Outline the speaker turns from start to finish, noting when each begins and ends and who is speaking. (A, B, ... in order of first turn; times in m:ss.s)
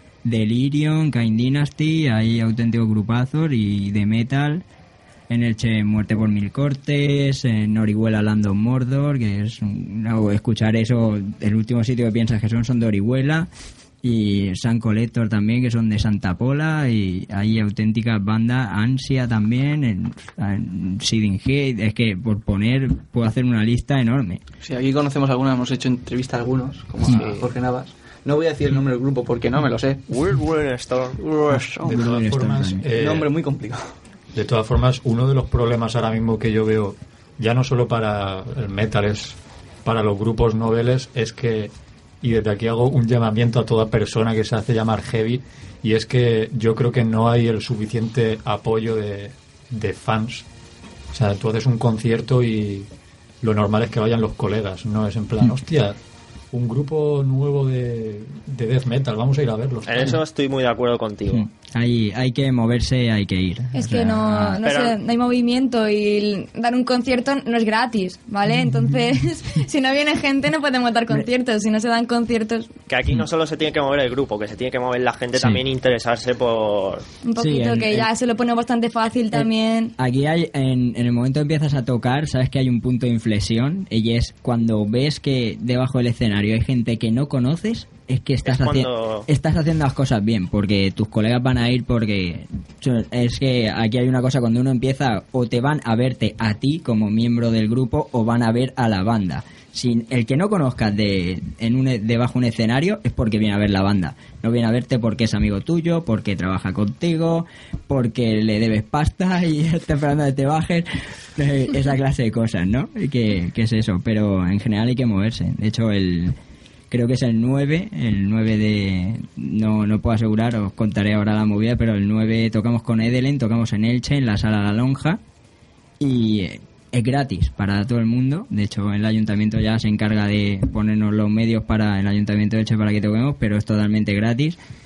0:00.2-0:04.6 A
0:05.3-0:13.5 A
0:14.0-0:24.4 A
0:24.6-0:30.0 B
0:27.1-0:27.5 C
0:30.1-0:31.2 C
0:31.2-0:32.0 B
0:31.5-0:32.9 A
0:31.8-0:33.3 D
0:33.0-0:34.0 B
0:34.3-0:50.5 D
0:51.1-0:52.9 D
0:53.4-0:56.0 D
0:56.5-1:00.2 D
0:59.9-1:01.4 C
1:01.3-1:04.6 A
1:03.7-1:12.7 E
1:04.6-1:05.0 C
1:12.9-1:17.1 C
1:15.3-1:15.6 A
1:17.2-1:19.9 E
1:17.4-1:18.1 A
1:19.3-1:56.4 A
1:28.4-1:29.3 C
1:56.9-2:05.2 A
2:06.0-2:14.6 A